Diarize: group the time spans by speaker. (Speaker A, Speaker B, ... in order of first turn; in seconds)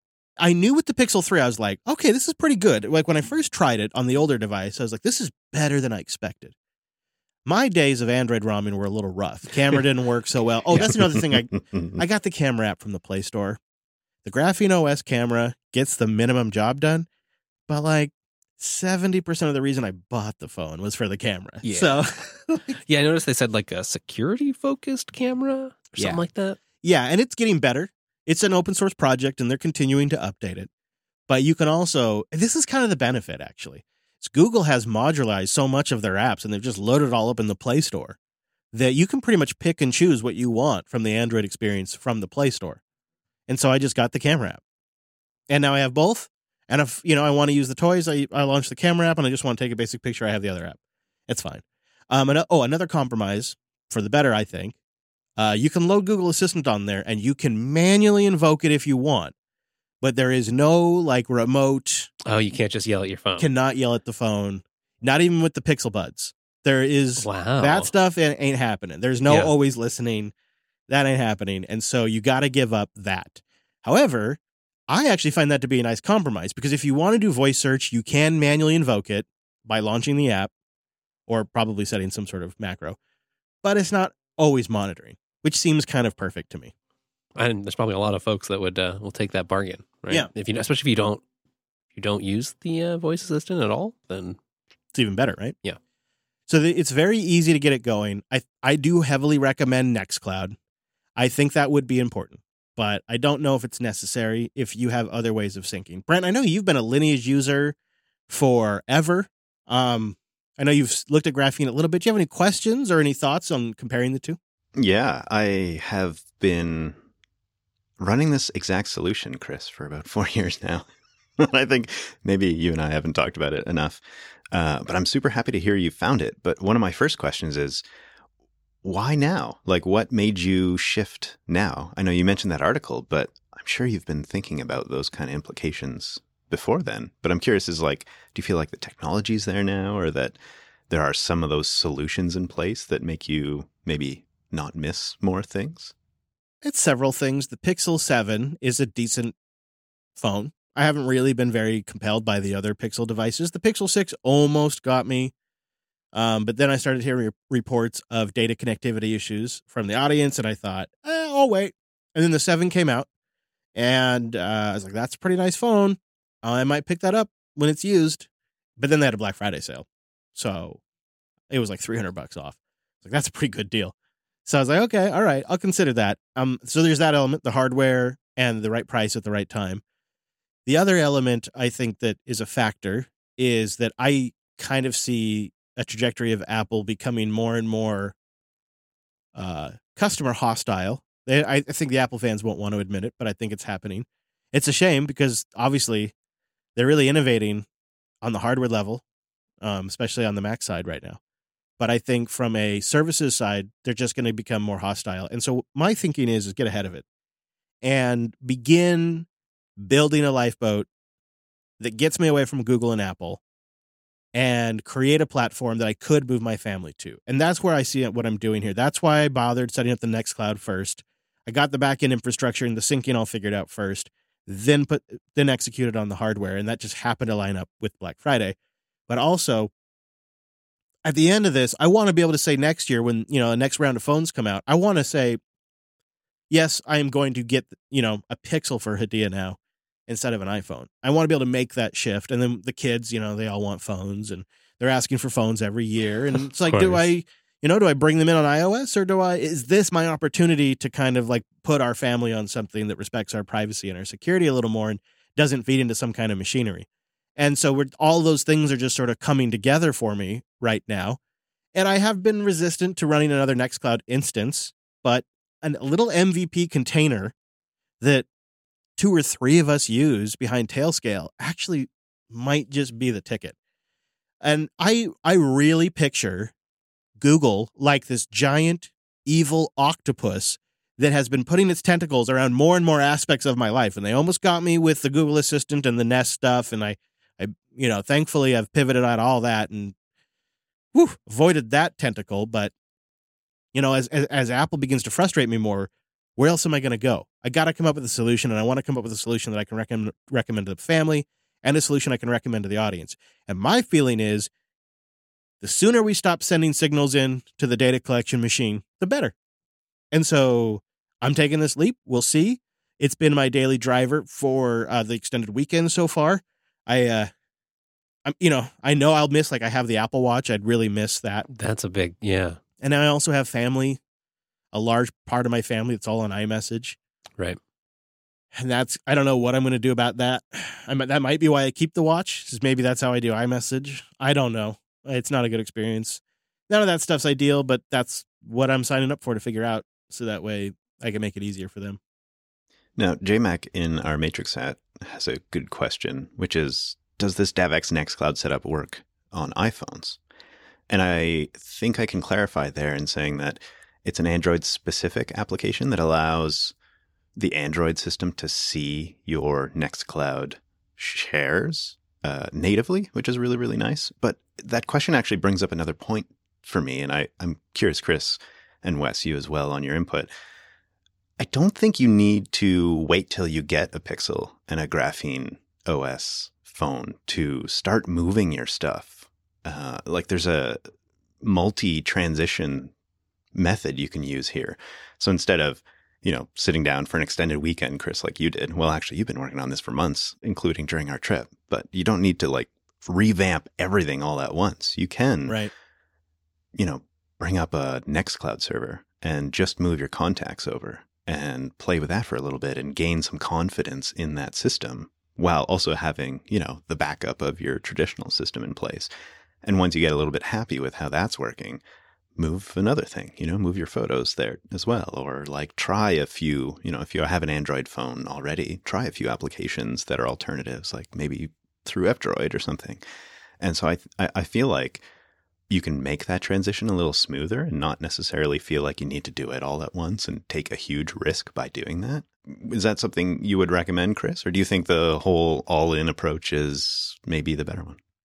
Speaker A: 0.4-6.5, 7.4-13.6, 14.2-17.1, 17.7-22.8, 26.0-26.2, 26.8-30.7, 31.3-38.2, 38.7-42.8, 43.5-44.6, 45.5-54.7, 55.4-59.3, 60.0-62.1, 63.4-70.3, 70.9-80.5, 81.3-83.0, 83.6-86.7, 94.9-95.5, 96.5-100.5, 101.2-107.7, 108.3-114.4, 146.6-149.3, 150.2-155.3, 156.1-163.1, 163.7-168.3, 168.8-170.8, 171.5-173.9, 174.4-179.8, 180.7-188.1, 189.3-196.1, 196.8-197.7, 198.2-199.0, 199.6-201.2, 201.8-207.0, 207.8-209.2, 209.8-210.9, 211.8-213.4, 214.3-228.5, 229.1-229.7, 231.0-235.4, 236.5-256.9, 257.4-261.2, 261.7-267.3, 268.0-268.3, 269.0-273.5, 274.4-276.5, 277.2-289.9, 290.9-292.7, 293.7-304.5, 305.6-309.3, 310.1-317.3, 318.2-321.5, 322.8-324.0, 324.7-327.0, 328.5-342.0, 395.5-395.7
Speaker B: 11.7-12.0, 114.8-117.0, 118.0-120.9, 121.4-127.8, 128.8-145.9, 342.9-350.2, 350.9-356.7, 357.4-370.3, 371.4-380.9, 381.4-382.9, 383.5-395.6, 396.7-409.1, 409.6-411.8, 412.4-423.0, 423.6-425.1, 425.7-438.0
Speaker C: 21.6-22.0, 22.8-26.6, 62.2-63.5, 67.2-67.9, 87.3-91.2, 91.9-94.4, 246.7-247.1, 321.5-322.6